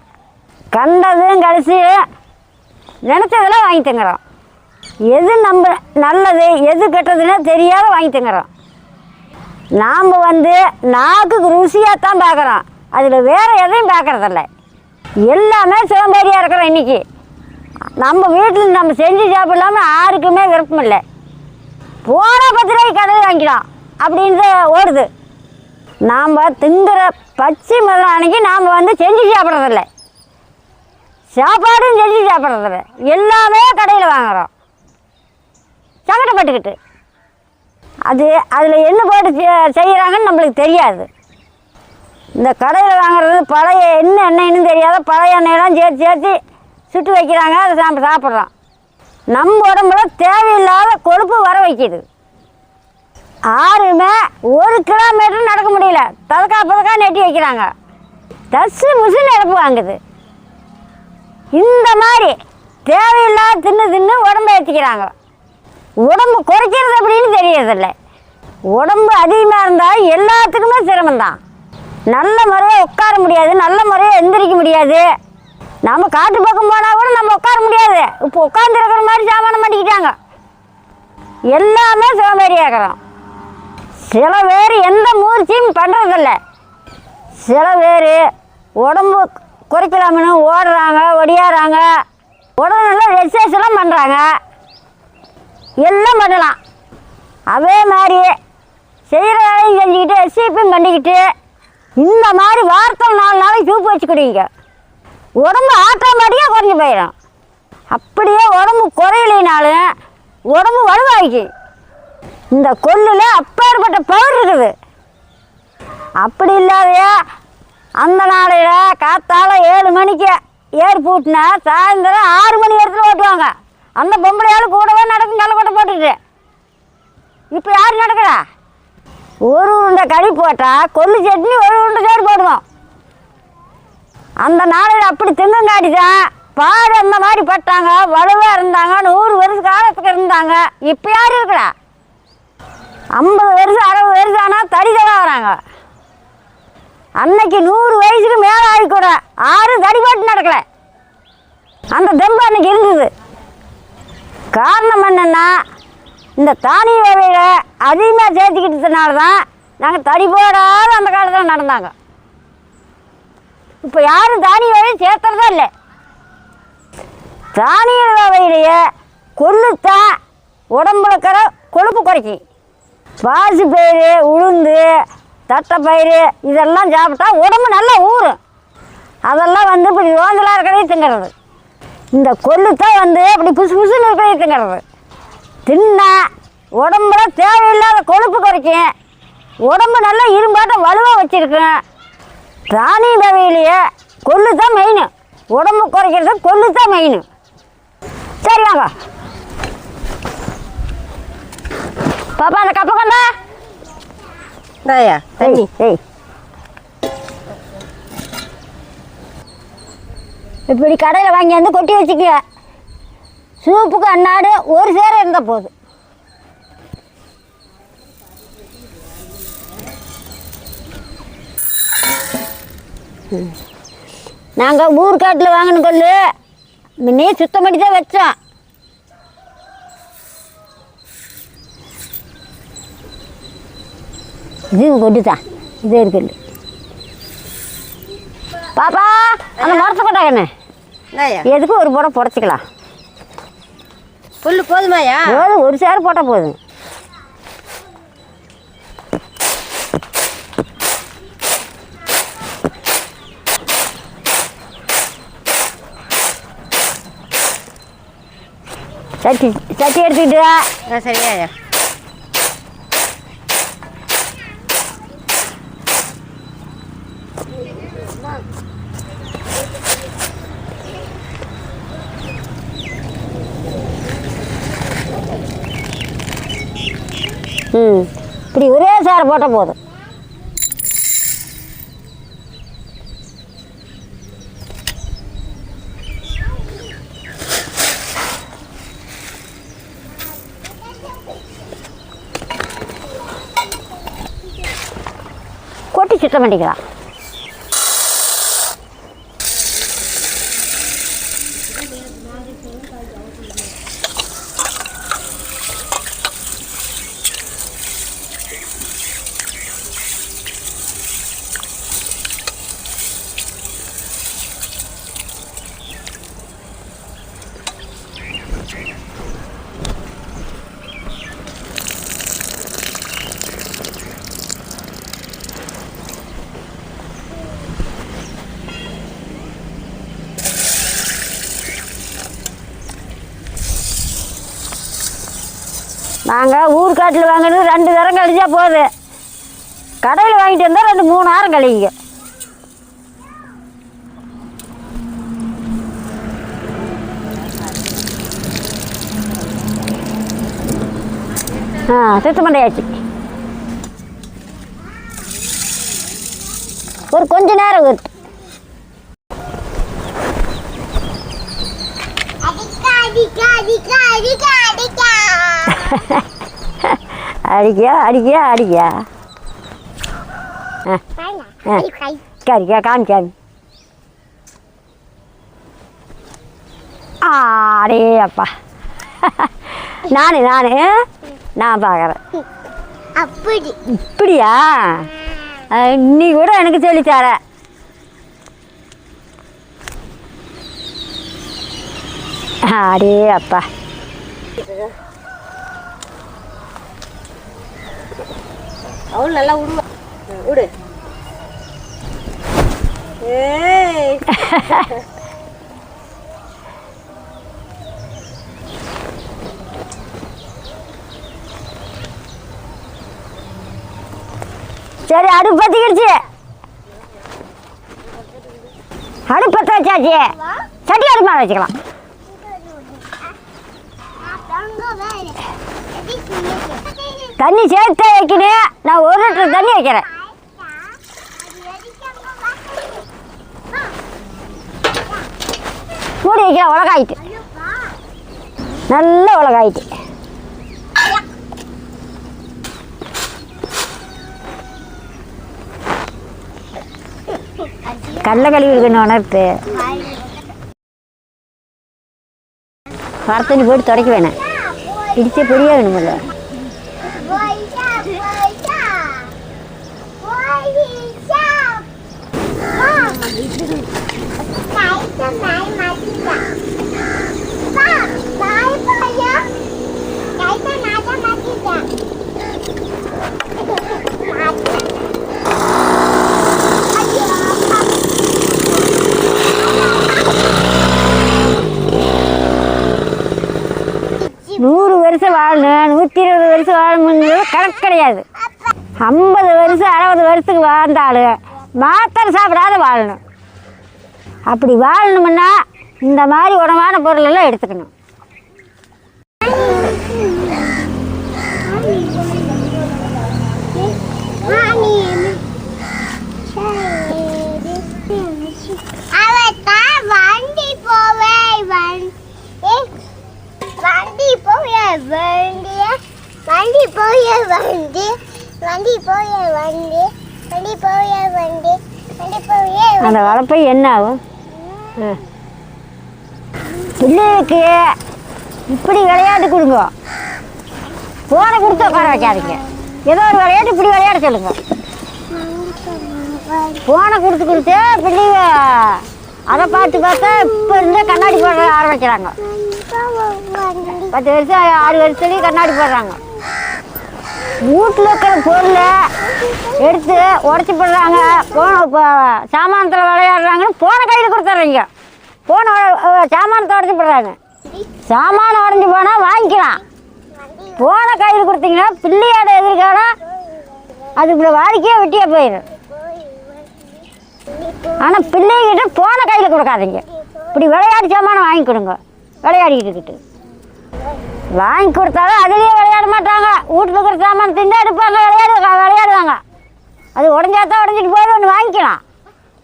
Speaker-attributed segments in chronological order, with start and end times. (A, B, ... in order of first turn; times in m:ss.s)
0:00.7-0:02.0 A
0:03.0-0:04.2 A
0:05.1-0:08.5 A
0:09.8-0:14.5 A
0:15.3-0:17.0 A
0:18.0-0:21.0 A
0:22.0-0:25.1 A
0:26.0-0:29.8 A
0:31.3-0:34.5 A
0:36.1-0:36.8 A
0:38.1-0:41.1 A
0:42.4-0:46.4 A
0:46.9-0:48.5 A
0:49.3-0:52.0 A
0:53.5-0:57.7 A
0:58.5-1:00.0 A
1:01.5-1:05.1 A
1:06.0-1:07.9 A
1:08.7-1:11.4 A
1:12.1-1:15.0 A
1:15.8-1:20.1 A
1:21.5-1:23.0 A
1:24.0-1:26.4 A
1:27.4-1:28.2 A
1:28.8-1:31.9 A
1:32.6-1:34.2 A
1:35.8-1:36.6 A
1:37.5-1:38.4 A
1:39.1-1:41.2 A
1:42.0-1:44.5 A
1:45.4-1:47.1 A
1:47.9-1:49.8 A
1:50.5-1:51.5 A
1:52.5-1:54.7 A
1:56.2-1:57.1 A
1:58.0-2:06.2 A
2:07.5-2:08.4 A
2:09.4-2:12.6 A
2:14.4-2:21.7 A
2:23.2-2:25.6 A
2:27.2-2:30.6 A
2:31.9-2:33.1 A
2:34.5-2:35.5 A
2:36.4-2:41.9 A
2:43.8-2:45.7 A
2:47.5-2:48.8 A
2:49.4-2:50.1 A
2:50.7-2:52.4 A
2:53.2-2:54.8 A
2:55.5-2:58.4 A
2:59.2-3:01.3 A
3:02.1-3:04.8 A
3:05.6-3:06.1 A
3:06.8-3:08.9 A
3:09.7-3:11.8 A
3:12.7-3:17.2 A
3:18.4-3:18.9 A
3:22.4-3:23.3 A
3:24.8-3:25.7 B
3:25.4-3:26.0 A
3:30.7-3:32.4 A
3:33.6-3:35.7 A
3:44.6-3:46.2 A
3:47.0-3:48.3 A
3:54.7-3:56.3 A
3:58.7-4:00.5 A
3:59.6-3:59.9 B
4:01.1-4:01.5 B
4:01.4-4:02.6 A
4:04.4-4:05.4 B
4:05.2-4:06.6 A
4:19.2-4:20.7 A
4:20.9-4:21.5 B
4:37.7-4:39.8 A
4:50.4-4:51.3 C
4:55.9-4:56.8 A
5:36.3-5:38.9 A
5:40.0-5:41.9 A
5:51.8-5:52.9 A
5:57.1-5:58.0 A
6:02.4-6:05.9 C
6:05.7-6:06.2 A
6:06.8-6:09.0 A
6:11.2-6:12.2 C
6:12.4-6:13.3 A
6:17.2-6:18.5 A
6:19.2-6:21.0 A
6:21.6-6:22.2 A
6:23.2-6:23.8 C
6:23.9-6:25.1 A
6:25.7-6:27.4 A
6:32.6-6:33.6 A
6:34.6-6:34.9 B
6:39.1-6:40.7 B
6:43.2-6:44.9 B
6:44.4-6:44.8 A
6:55.1-6:56.2 A
6:59.3-7:00.3 A
7:00.8-7:01.7 A
7:02.3-7:03.3 C
7:04.2-7:07.4 C
7:07.4-7:10.1 A
7:09.5-7:13.1 C
7:16.2-7:17.2 A
7:17.4-7:17.9 C
7:18.9-7:19.9 A
7:27.9-7:28.6 C
7:28.2-7:29.6 A
7:29.7-7:30.3 C
7:33.2-7:34.4 A
7:34.3-7:35.8 C
7:35.2-7:36.3 A
7:37.0-7:39.4 C
7:40.2-7:41.9 C
7:42.7-7:43.2 C
7:44.6-7:46.5 C
7:47.7-7:49.6 C
7:50.4-7:51.9 C
7:53.6-7:55.2 C
7:56.9-7:58.1 C
7:59.4-8:00.4 C
8:04.2-8:04.7 C
8:04.6-8:08.2 A
8:09.0-8:13.2 A
8:14.5-8:15.5 A
8:16.0-8:17.9 A
8:19.4-8:20.7 C
8:21.7-8:22.3 C
8:24.4-8:25.4 C
8:26.4-8:32.9 C
8:33.8-8:43.4 C
8:43.0-8:44.2 A
8:44.7-8:45.0 C
8:47.0-8:47.7 A
8:48.7-8:49.9 A
8:51.3-8:54.6 A
8:51.9-8:53.0 C
8:55.3-8:56.8 C
8:56.8-9:02.4 A
9:02.4-9:04.1 C
9:04.1-9:06.2 A
9:07.6-9:08.9 A
9:09.2-9:10.4 C
9:09.8-9:14.9 A
9:11.2-9:11.6 C
9:15.5-9:17.4 A
9:18.1-9:19.8 A
9:20.3-9:20.8 C
9:20.8-9:23.1 A
9:23.4-9:24.1 C
9:24.2-9:25.6 A
9:25.7-9:26.9 C
9:27.5-9:28.0 C
9:28.0-9:33.2 A
9:30.1-9:30.5 C
9:34.5-9:39.4 A
9:40.2-9:42.0 A